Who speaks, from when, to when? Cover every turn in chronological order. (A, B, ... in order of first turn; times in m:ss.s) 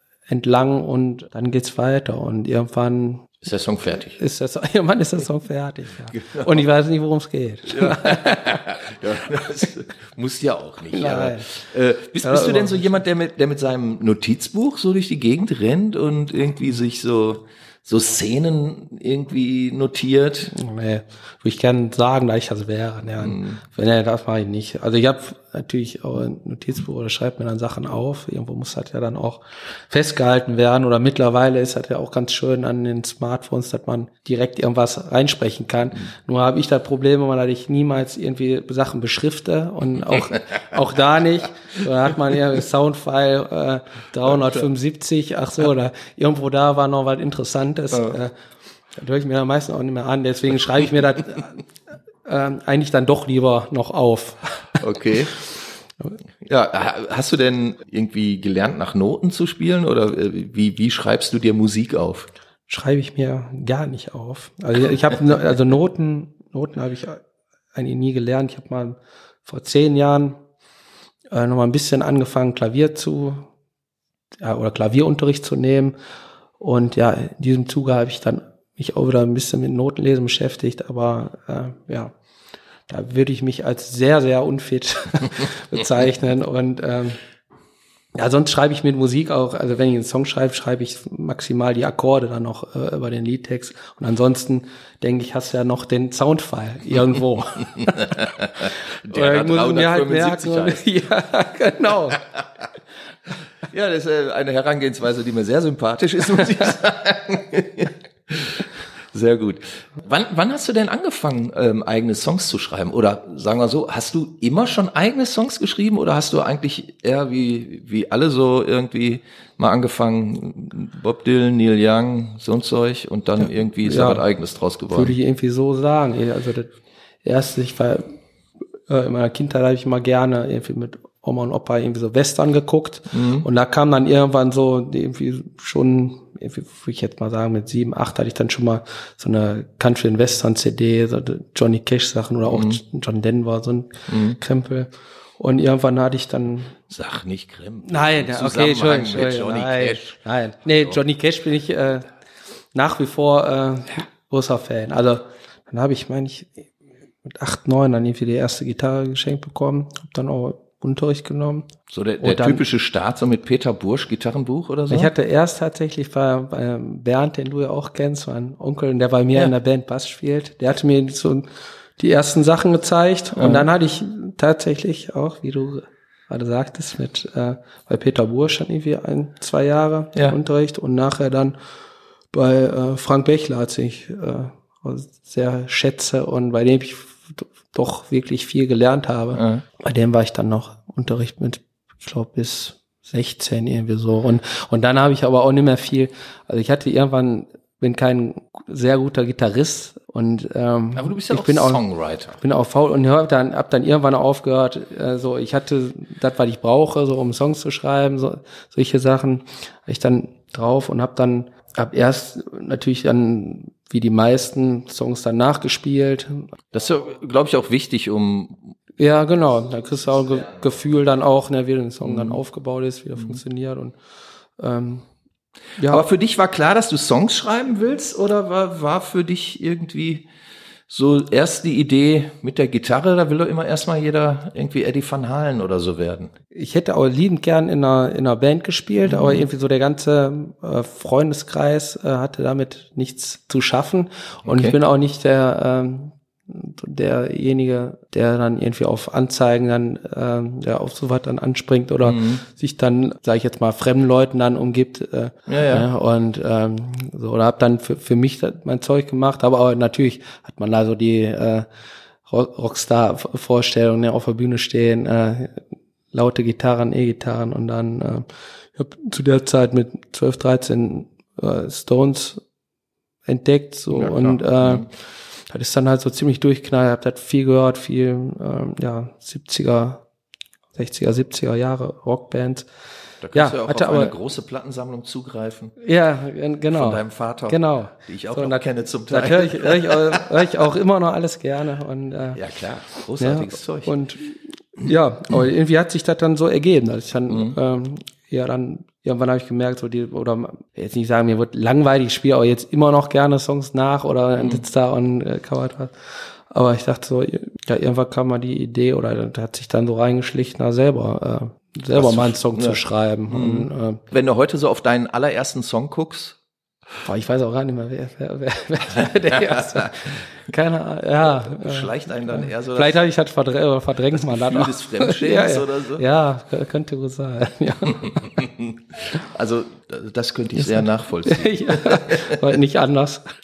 0:00.3-0:03.4 A
0:03.4-0:04.2 B
0:04.1-0:08.6 A
0:06.1-0:06.6 B
0:07.7-0:20.5 B
0:10.9-0:11.5 A
0:12.2-0:12.9 A
0:20.5-0:48.3 A
0:23.2-0:23.6 B
0:44.2-0:44.6 B
0:49.0-0:51.6 A
0:52.2-0:54.8 A
0:54.8-0:55.3 B
0:56.4-1:02.3 B
1:02.7-1:07.2 A
1:07.8-1:10.4 A
1:11.3-1:13.5 A
1:14.4-1:15.9 A
1:16.6-1:22.1 A
1:22.9-1:27.2 A
1:28.1-1:38.3 A
1:37.8-1:40.9 B
1:39.1-1:42.2 A
1:42.2-1:42.4 B
1:43.7-2:05.2 B
2:03.8-2:04.2 A
2:04.9-2:06.7 A
2:07.2-2:08.1 A
2:08.9-2:26.8 A
2:13.1-2:13.4 B
2:22.5-2:22.8 B
2:24.1-2:24.4 B
2:26.9-2:30.2 B
2:27.9-2:32.1 A
2:32.7-2:36.7 A
2:37.2-2:41.7 A
2:41.9-2:45.1 B
2:42.2-2:42.6 A
2:44.9-2:51.5 A
2:52.0-3:01.5 A
2:53.4-2:53.7 B
3:02.3-3:21.8 A
3:09.4-3:09.6 B
3:20.9-3:22.4 B
3:22.4-3:36.5 A
3:36.7-3:38.7 B
3:39.0-3:43.9 A
3:42.0-3:42.4 B
3:44.6-3:45.0 A
3:45.8-3:46.0 A
3:45.8-3:50.3 B
3:50.9-3:56.3 B
3:56.5-4:21.7 A
3:59.0-3:59.4 B
4:04.5-4:04.8 B
4:12.0-4:12.4 B
4:15.5-4:15.8 B
4:22.3-4:25.6 A
4:26.1-4:32.4 A
4:33.3-4:34.9 A
4:33.9-4:34.9 B
4:35.5-4:40.0 A
4:40.8-4:42.7 A
4:43.2-4:45.7 B
4:43.3-4:44.1 A
4:45.8-4:52.4 A
4:46.7-4:50.5 B
4:52.4-4:53.9 B
4:53.2-5:05.9 A
4:57.3-4:57.6 B
5:06.5-5:14.0 A
5:11.9-5:16.4 B
5:17.0-5:28.4 A
5:19.0-5:19.9 B
5:21.2-5:23.0 B
5:24.1-5:26.0 B
5:28.0-5:32.4 B
5:30.6-5:33.2 A